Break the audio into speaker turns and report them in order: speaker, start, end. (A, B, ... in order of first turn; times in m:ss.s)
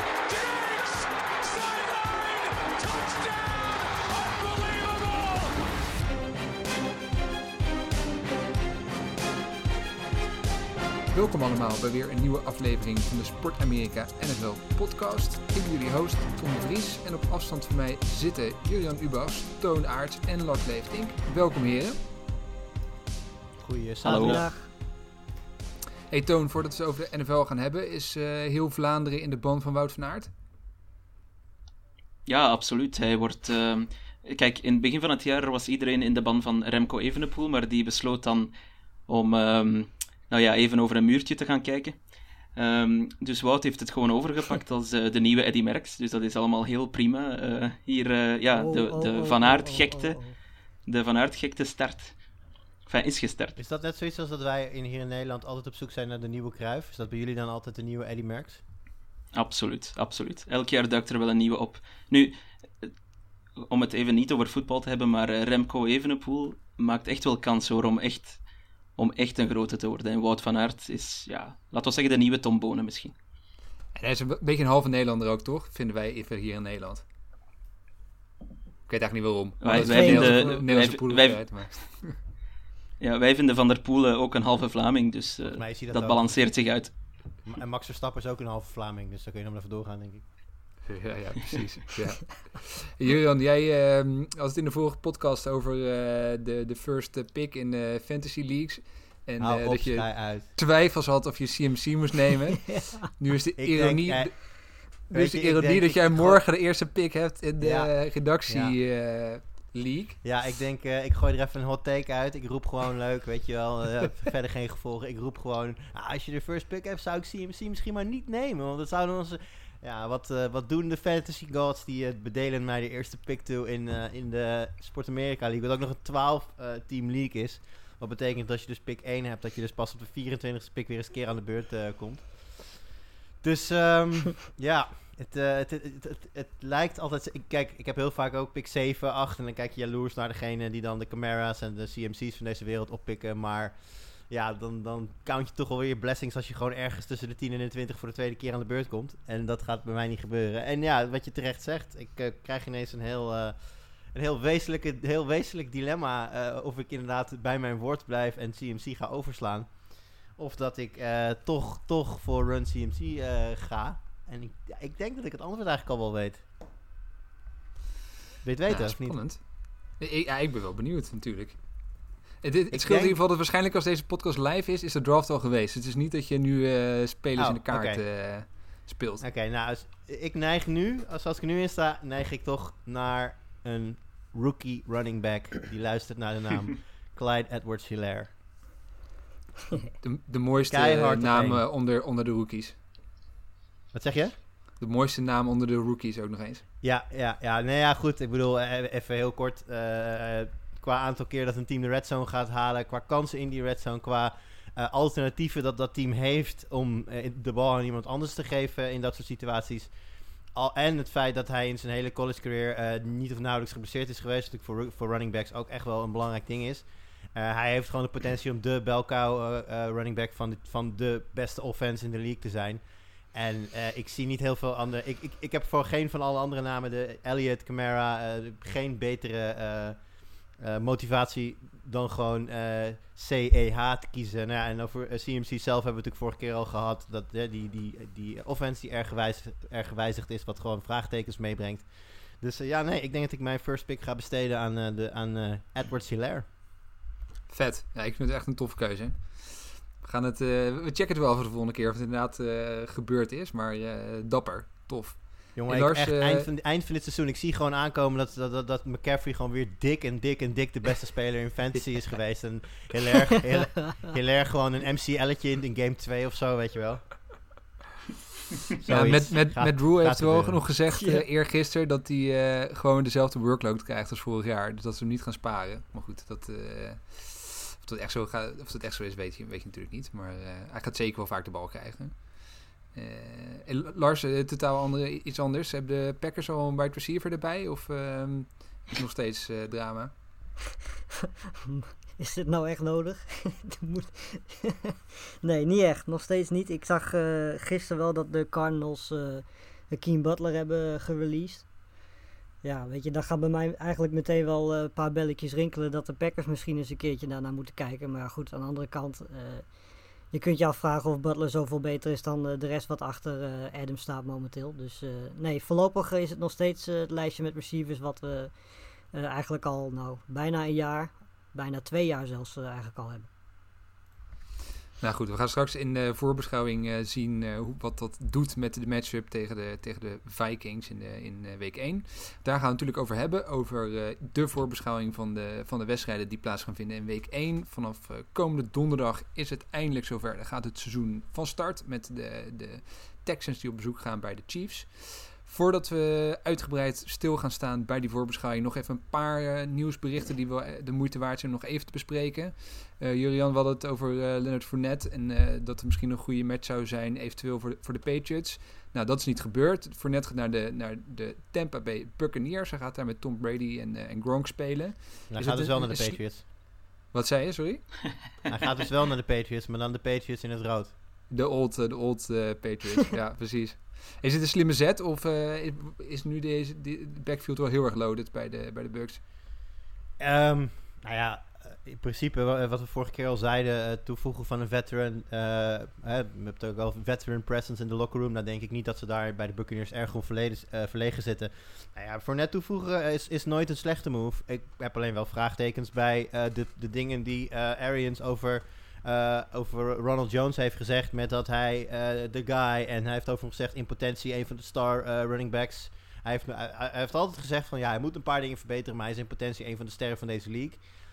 0:00.2-0:05.7 A
0:11.1-0:22.0 B
0:23.6-0:24.5 C
0:24.0-0:24.7 D
0:24.1-0:24.4 E
0:26.1-0:30.3 B
0:32.3-0:38.5 E
0:39.1-0:52.3 E
0:48.5-0:50.4 D
0:52.8-0:53.6 E
0:53.6-0:58.6 C
0:59.3-1:02.9 E
1:03.6-1:08.4 E
1:09.0-1:13.2 E
1:13.9-1:17.0 B
1:18.9-1:22.2 B
1:19.6-1:21.6 E
1:19.8-1:20.4 D
1:23.0-1:27.2 E
1:25.5-1:30.2 C
1:30.8-1:50.2 B
1:39.4-1:40.5 C
1:43.6-1:46.5 C
1:47.6-1:48.8 C
1:50.2-2:12.9 C
2:13.4-2:46.4 C
2:48.4-2:49.2 C
2:48.7-2:59.2 B
2:52.7-2:53.2 C
2:57.4-2:58.0 C
2:59.2-3:08.3 C
3:10.0-3:12.8 B
3:10.7-3:11.6 C
3:13.9-3:14.4 C
3:14.8-3:16.6 B
3:16.8-4:06.4 C
4:07.5-4:16.5 B
4:15.6-4:27.2 C
4:28.8-4:30.7 C
4:28.9-4:50.5 B
4:31.0-4:31.2 D
4:51.7-4:54.9 D
4:55.4-5:01.7 D
5:02.6-5:23.3 D
5:25.0-6:06.5 B
6:05.3-6:06.4 C
6:07.1-6:08.4 B
6:08.5-6:10.9 C
6:11.3-6:19.2 B
6:20.2-6:50.8 C